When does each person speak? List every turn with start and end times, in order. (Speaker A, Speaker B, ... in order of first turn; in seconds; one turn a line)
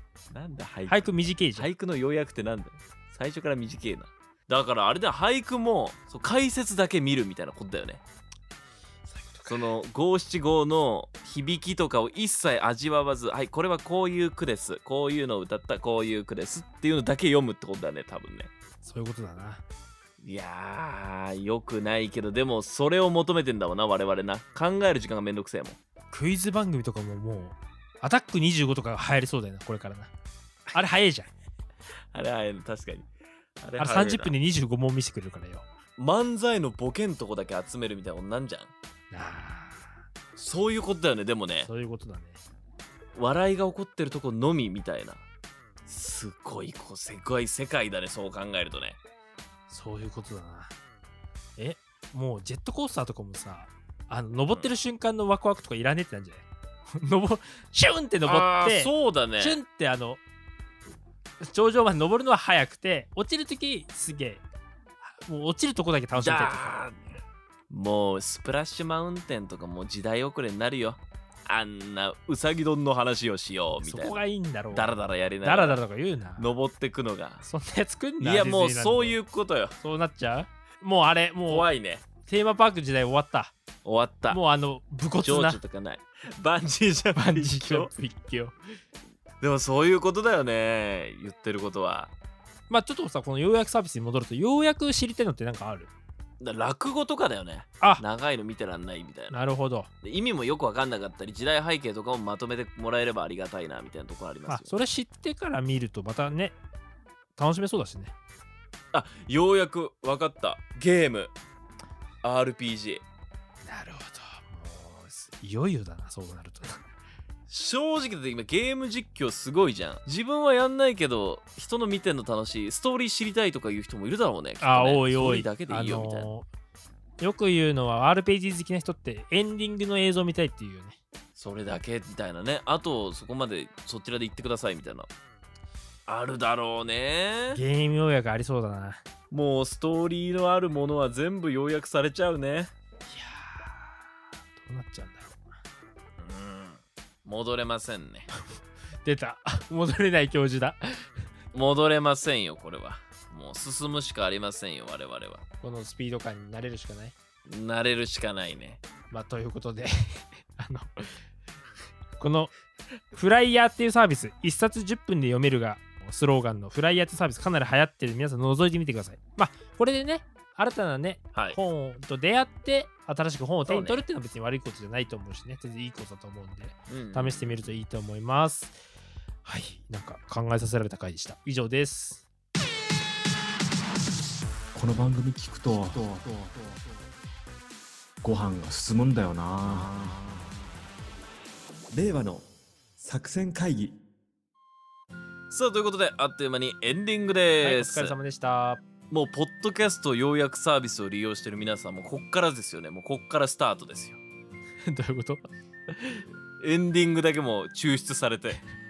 Speaker A: 0.3-8.0
Speaker B: 0.9-1.7
Speaker B: 9.1-9.7
Speaker A: 9.5-18.5
Speaker B: 18.8-19.6
Speaker A: 20.2-25.8
Speaker B: 26.1-30.1
Speaker B: 30.7-31.3
Speaker A: 32.1-33.1
Speaker A: 33.6-34.3
Speaker B: 33.8-35.7
Speaker A: 36.0-38.7
Speaker B: 39.1-39.9
Speaker A: 40.4-41.7
Speaker B: 41.6-42.4
Speaker A: 43.1-45.2
Speaker A: 45.9-49.0
Speaker B: 49.7-50.7
Speaker B: 51.6-60.2
Speaker A: 58.2-59.6
Speaker B: 61.4-64.4
Speaker B: 65.0-66.8
Speaker A: 66.2-74.2
Speaker B: 73.8-74.9
Speaker A: 74.7-75.8
Speaker B: 75.4-76.5
Speaker A: 76.4-77.4
Speaker B: 77.4-79.2
Speaker A: 78.2-79.8
Speaker B: 79.8-81.7
Speaker A: 81.5-82.0
Speaker B: 82.3-83.5
Speaker A: 83.8-84.4
Speaker B: 84.3-85.6
Speaker A: 85.2-87.9
Speaker B: 87.2-88.5
Speaker A: 89.4-92.1
Speaker B: 92.7-95.9
Speaker A: 96.4-99.4
Speaker B: 99.3-99.9
Speaker A: 100.0-104.7
Speaker B: 104.5-106.6
Speaker B: 107.4-108.1
Speaker A: 108.9-111.3
Speaker A: 112.2-113.0
Speaker B: 113.7-116.9
Speaker A: 117.5-126.3
Speaker B: 124.6-126.5
Speaker B: 127.2-131.0
Speaker A: 131.4-135.1
Speaker A: 136.1-137.6
Speaker B: 137.5-139.0
Speaker A: 139.3-142.7
Speaker B: 143.1-144.0
Speaker B: 144.5-145.6
Speaker A: 146.2-148.3
Speaker B: 149.0-151.1
Speaker A: 151.5-155.4
Speaker B: 155.6-157.2
Speaker A: 157.5-158.8
Speaker B: 159.1-161.2
Speaker B: 162.2-162.5
Speaker B: 163.1-178.8
Speaker A: 173.7-174.1
Speaker A: 176.9-177.6
Speaker B: 179.4-182.2
Speaker C: 184.7-187.1
Speaker C: 188.2-190.7
Speaker C: 191.9-194.0
Speaker A: 195.5-198.1
Speaker B: 197.6-198.8
Speaker A: 199.1-204.2
Speaker B: 204.8-206.2
Speaker A: 206.6-208.6